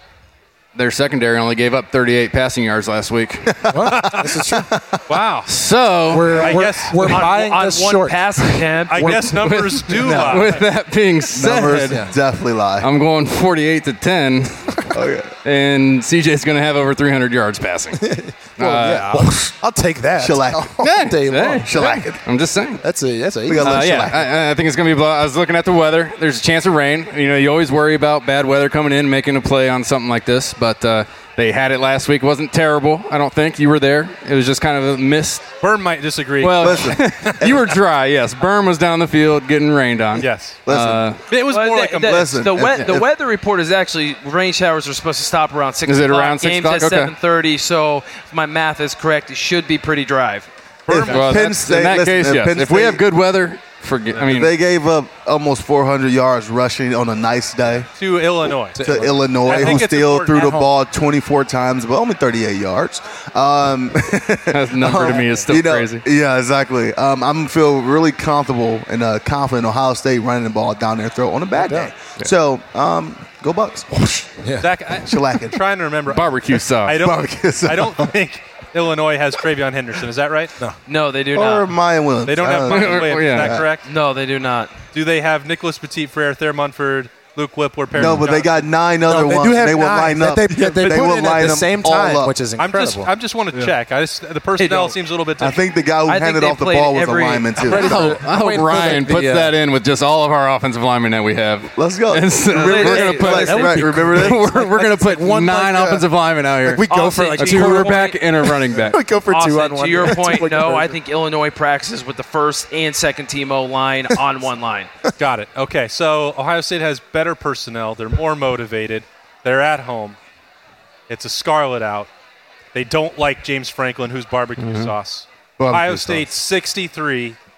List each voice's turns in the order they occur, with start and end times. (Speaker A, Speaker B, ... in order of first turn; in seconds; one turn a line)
Speaker A: 0.7-3.7
Speaker B: 3.5-5.0
Speaker C: 3.7-4.7
Speaker D: 5.1-5.5
Speaker A: 5.5-6.5
Speaker C: 6.1-10.6
Speaker D: 6.4-7.5
Speaker E: 7.0-9.2
Speaker D: 8.9-10.6
Speaker A: 9.3-12.1
Speaker B: 11.3-12.9
Speaker C: 11.8-12.1
Speaker A: 12.8-14.9
Speaker B: 14.9-15.3
Speaker A: 15.4-18.1
Speaker C: 18.0-22.2
Speaker A: 18.6-19.2
Speaker B: 20.2-20.8
Speaker A: 20.8-22.8
Speaker B: 21.6-22.2
Speaker C: 22.8-24.1
Speaker B: 23.5-24.3
Speaker A: 23.6-35.5
Speaker D: 35.6-37.4
Speaker A: 36.4-41.2
Speaker B: 36.6-37.7
Speaker D: 40.2-40.6
Speaker B: 40.6-41.1
Speaker D: 41.3-42.3
Speaker E: 41.5-50.5
Speaker B: 42.0-43.1
Speaker A: 45.9-47.1
Speaker D: 50.9-51.5
Speaker B: 50.9-53.0
Speaker A: 51.0-54.5
Speaker B: 54.2-57.9
Speaker D: 58.0-60.6
Speaker B: 58.5-74.3
Speaker C: 58.7-60.7
Speaker A: 64.5-66.0
Speaker C: 65.1-65.5
Speaker C: 71.5-71.9
Speaker C: 74.0-74.7
Speaker D: 74.6-80.5
Speaker B: 75.0-75.6
Speaker A: 76.1-77.0
Speaker B: 77.0-78.1
Speaker E: 80.9-81.7
Speaker B: 81.3-83.7
Speaker D: 82.2-83.8
Speaker A: 82.7-83.6
Speaker E: 83.8-84.8
Speaker D: 84.9-88.6
Speaker B: 87.9-92.4
Speaker C: 89.0-93.1
Speaker D: 92.5-95.6
Speaker E: 94.6-94.9
Speaker B: 95.4-98.2
Speaker E: 96.1-97.9
Speaker C: 97.7-99.5
Speaker A: 97.9-106.8
Speaker B: 101.8-104.5
Speaker E: 102.5-103.5
Speaker C: 103.2-106.1
Speaker C: 106.6-111.0
Speaker E: 106.9-108.2
Speaker A: 107.4-109.0
Speaker E: 109.3-114.9
Speaker D: 115.2-120.2
Speaker D: 121.1-122.1
Speaker D: 122.7-127.4
Speaker A: 124.6-124.9
Speaker B: 125.6-126.3